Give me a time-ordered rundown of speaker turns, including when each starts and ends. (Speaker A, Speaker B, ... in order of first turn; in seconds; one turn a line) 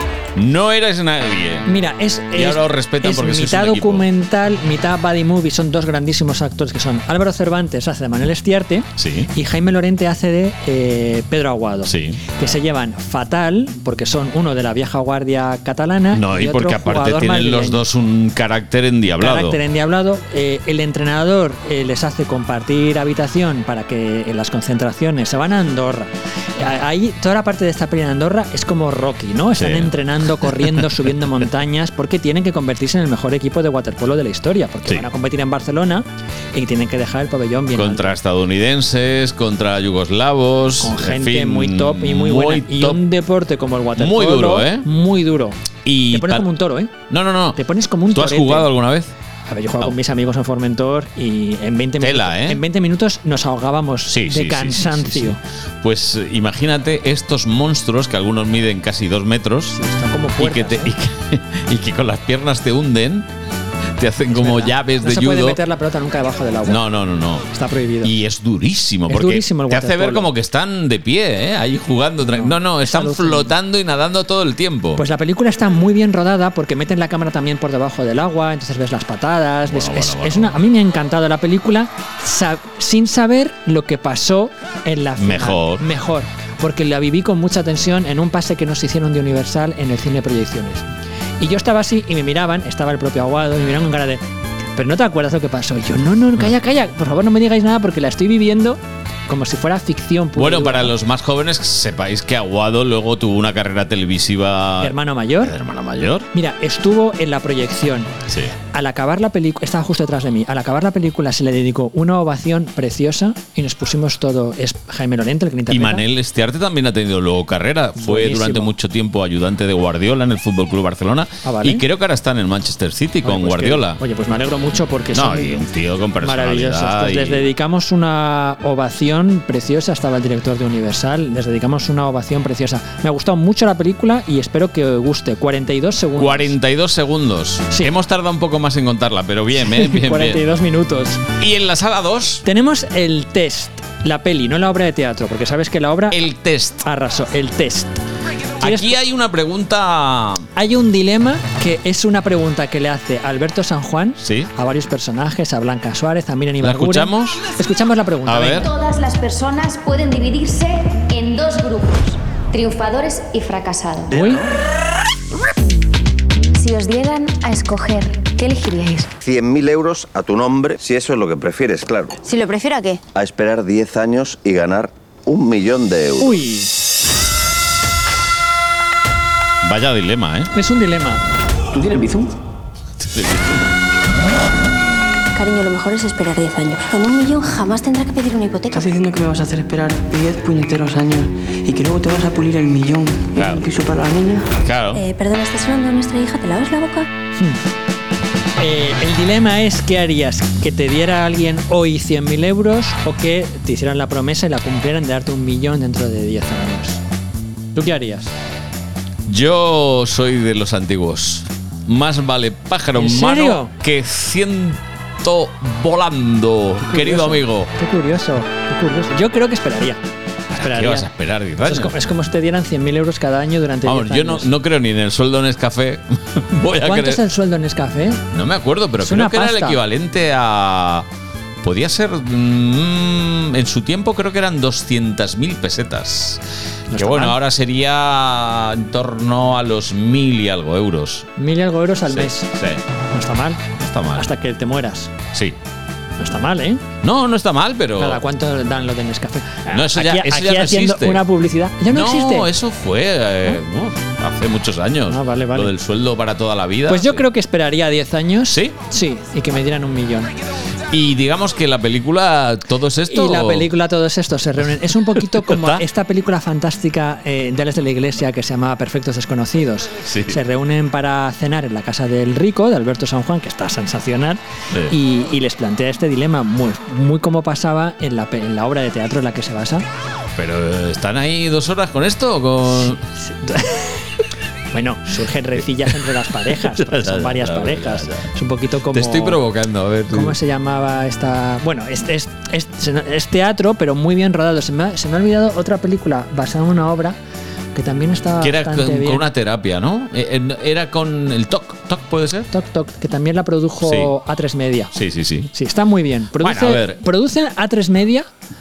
Speaker A: 0.3-1.7
Speaker B: 1.7-17.8
Speaker A: 2.4-4.1
Speaker A: 9.0-9.3
Speaker A: 11.9-12.2
Speaker A: 16.1-19.6
Speaker B: 19.2-38.2
Speaker A: 29.6-30.9
Speaker A: 37.7-43.0
Speaker B: 40.8-46.9
Speaker A: 44.0-44.9
Speaker A: 45.9-46.5
Speaker A: 47.1-47.6
Speaker B: 47.5-48.7
Speaker A: 48.1-49.1
Speaker B: 49.5-55.4
Speaker A: 52.0-52.6
Speaker A: 54.1-59.8
Speaker B: 59.7-60.9
Speaker A: 60.4-63.3
Speaker A: 64.0-65.6
Speaker B: 64.3-66.8
Speaker A: 66.7-67.5
Speaker B: 67.5-68.1
Speaker A: 68.0-75.0
Speaker B: 69.1-70.3
Speaker B: 72.2-73.5
Speaker B: 75.0-90.8
Speaker A: 79.7-80.6
Speaker A: 85.2-85.9
Speaker B: 91.4-94.2
Speaker B: 94.8-100.9
Speaker A: 100.4-106.3
Speaker B: 104.8-105.5
Speaker B: 106.3-108.1
Speaker A: 108.3-108.5
Speaker B: 108.7-116.0
Speaker A: 115.7-124.0
Speaker B: 118.0-118.7
Speaker B: 121.4-121.8
Speaker B: 123.2-125.6
Speaker A: 125.1-127.5
Speaker B: 126.2-136.6
Speaker A: 136.2-140.4
Speaker B: 139.6-141.2
Speaker A: 141.4-142.4
Speaker B: 142.4-146.2
Speaker A: 146.1-146.8
Speaker B: 146.8-147.9
Speaker A: 148.6-150.5
Speaker B: 148.6-148.9
Speaker B: 150.6-158.7
Speaker A: 154.2-154.5
Speaker A: 156.6-157.4
Speaker A: 158.2-158.7
Speaker C: 158.6-164.2
Speaker B: 164.1-164.5
Speaker C: 166.5-169.1
Speaker D: 169.2-172.2
Speaker D: 173.2-176.3
Speaker B: 176.2-176.7
Speaker A: 179.6-180.5
Speaker B: 180.5-181.2
Speaker A: 183.0-183.6
Speaker C: 185.3-188.9
Speaker E: 188.7-194.5
Speaker A: 193.4-193.6
Speaker A: 194.6-195.0
Speaker C: 194.9-197.1
Speaker B: 198.6-207.0
Speaker B: 207.8-208.3
Speaker A: 209.3-217.7
Speaker B: 212.9-213.7
Speaker B: 216.9-220.0
Speaker B: 220.5-221.1
Speaker A: 220.5-221.9
Speaker B: 221.6-224.5
Speaker A: 223.8-227.2
Speaker B: 226.8-228.2
Speaker A: 228.3-231.1
Speaker B: 229.0-229.8
Speaker A: 231.6-241.3
Speaker B: 236.9-237.4
Speaker B: 241.4-242.5
Speaker A: 242.1-242.8
Speaker B: 243.1-243.6
Speaker A: 243.8-244.3
Speaker B: 244.2-245.1
Speaker B: 246.2-246.8
Speaker A: 247.0-248.2
Speaker B: 248.0-252.5
Speaker A: 249.7-251.2
Speaker A: 251.9-257.3
Speaker B: 255.1-255.7
Speaker B: 256.9-260.3
Speaker A: 258.5-258.8
Speaker A: 260.9-263.7
Speaker B: 263.1-279.9
Speaker A: 265.1-265.8
Speaker A: 270.1-270.4
Speaker A: 280.4-283.0
Speaker B: 282.8-284.0
Speaker B: 284.7-289.4
Speaker A: 286.5-288.3
Speaker A: 288.9-290.4
Speaker B: 290.1-297.2
Speaker B: 297.8-299.3
Speaker A: 298.4-302.5
Speaker B: 302.5-304.9
Speaker A: 303.8-304.1
Speaker A: 304.9-305.5
Speaker B: 305.5-308.3
Speaker A: 306.4-307.0